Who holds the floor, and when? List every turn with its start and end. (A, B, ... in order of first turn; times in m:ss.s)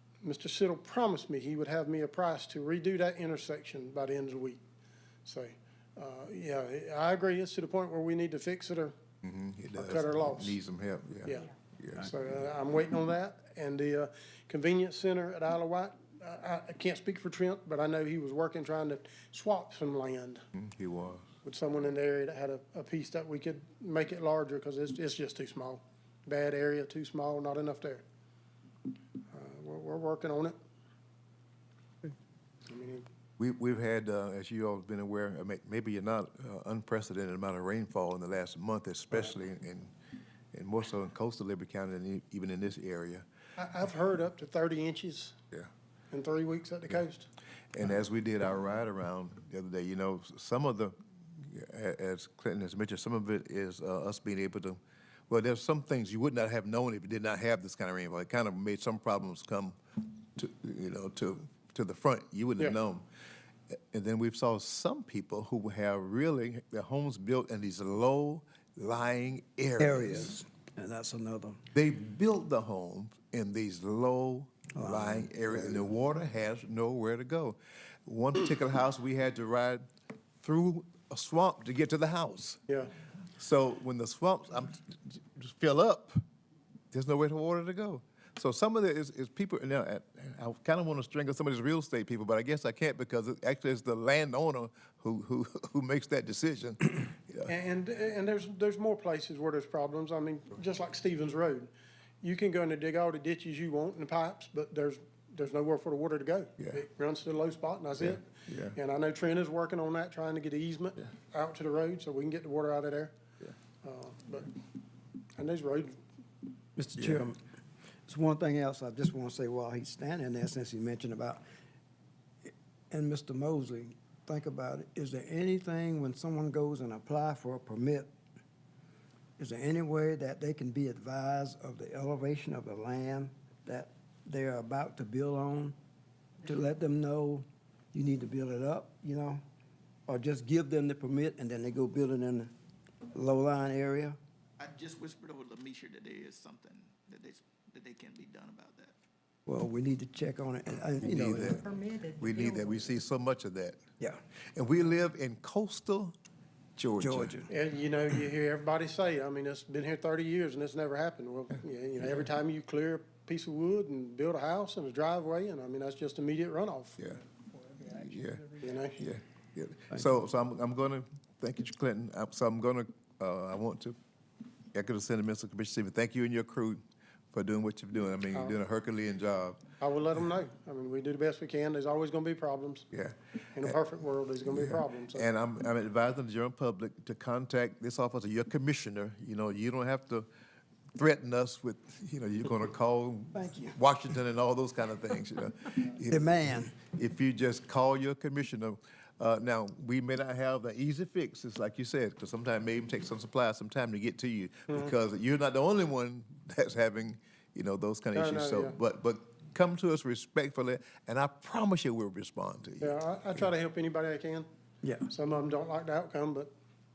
0:00.2-0:04.6 A
0:05.2-0:08.9 A
0:09.2-0:12.1 B
0:09.8-0:10.6 A
0:11.2-0:20.4 A
0:20.5-0:21.3 B
0:21.4-0:28.0 A
0:29.3-0:30.6 A
0:32.7-0:33.1 A
0:33.4-0:39.9 B
0:40.5-0:43.2 B
0:43.6-0:45.4 A
0:46.1-0:47.3 A
0:47.7-0:59.8 B
1:00.4-1:03.0 B
1:03.9-1:10.3 B
1:09.8-1:11.6 C
1:11.7-1:19.8 B
1:14.8-1:15.8 C
1:20.4-1:22.6 B
1:23.4-1:26.2 B
1:26.9-1:37.5 B
1:37.5-1:41.7 A
1:42.2-1:53.2 A
1:48.0-1:48.8 B
1:53.8-1:54.5 A
1:55.4-1:56.0 A
1:56.8-1:57.4 C
1:58.1-2:01.4 C
2:02.4-2:08.1 C
2:09.4-2:15.8 C
2:16.4-2:19.4 C
2:20.1-2:22.5 C
2:23.1-2:24.2 C
2:24.6-2:28.9 D
2:29.5-2:31.8 C
2:31.0-2:33.8 B
2:34.6-2:36.1 B
2:36.8-2:37.4 B
2:37.0-2:37.5 C
2:37.5-2:47.0 A
2:47.8-2:54.0 B
2:48.6-2:49.0 A
2:54.7-2:56.8 B
2:57.3-2:59.6 B
2:58.3-2:58.6 A
2:59.8-3:02.9 A
3:02.9-3:03.7 B
3:03.6-3:05.3 A
3:04.5-3:10.3 B
3:11.0-3:33.0 B
3:13.3-3:13.8 C
3:16.1-3:16.8 C
3:28.1-3:28.8 A
3:32.8-3:34.5 A
3:34.8-3:35.1 C
3:35.1-3:36.5 A